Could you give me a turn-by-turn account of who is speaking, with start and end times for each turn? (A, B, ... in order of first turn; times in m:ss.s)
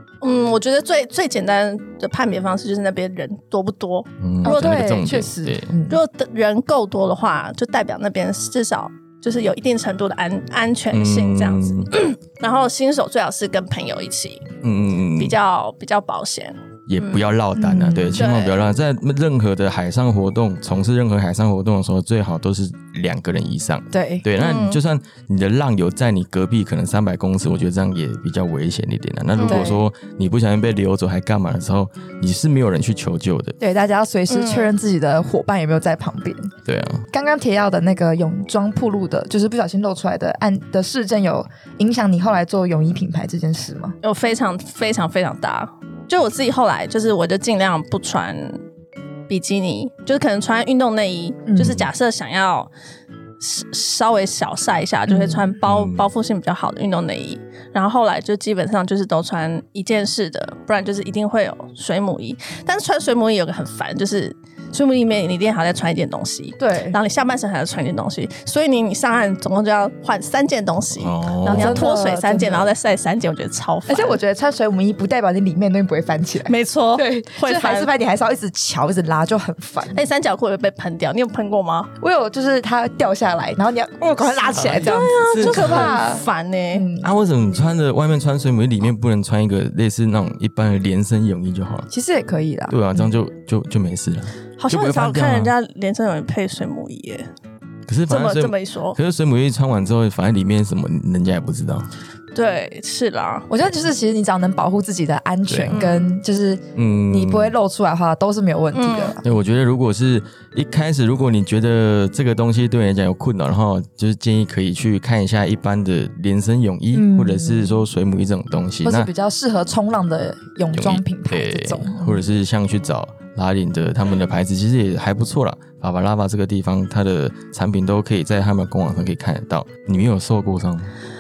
0:00.2-0:04.9 A
0:04.2-0:05.7 B
0:04.4-0:06.0 C
0:05.9-0:14.5 A
0:10.9-0:11.9 B
0:14.6-0:15.4 B
0:15.2-0:17.2 A
0:16.9-0:33.6 B
0:17.6-0:18.2 C
0:18.2-0:18.6 A
0:23.9-0:24.3 C
0:24.4-0:24.8 A
0:29.4-0:29.8 A
0:29.4-0:29.8 C
0:33.6-0:36.5 C
0:34.3-0:34.7 A
0:36.7-0:37.0 B
0:37.1-0:44.0 C
0:44.0-0:48.6 A
0:49.3-0:52.7 A
0:51.5-0:51.9 C
0:53.4-1:14.2 A
0:55.1-0:55.5 C
0:55.6-0:56.1 B
1:06.6-1:07.0 C
1:11.0-1:11.9 B
1:11.5-1:12.7 C
1:13.9-1:20.0 C
1:16.5-1:17.9 A
1:19.9-1:21.9 A
1:22.0-1:27.1 C
1:24.2-1:26.0 B
1:24.8-1:26.9 A
1:27.0-1:31.9 B
1:31.9-1:33.1 C
1:32.7-1:35.5 B
1:34.6-1:37.3 A
1:37.9-1:41.9 B
1:38.1-1:39.0 A
1:42.3-1:43.5 A
1:43.5-1:49.2 C
1:45.5-1:45.8 B
1:45.7-1:46.1 A
1:46.8-1:47.6 B
1:48.7-1:49.2 A
1:49.2-1:59.1 B
1:56.9-1:57.8 C
1:58.8-2:02.2 C
2:00.7-2:10.9 B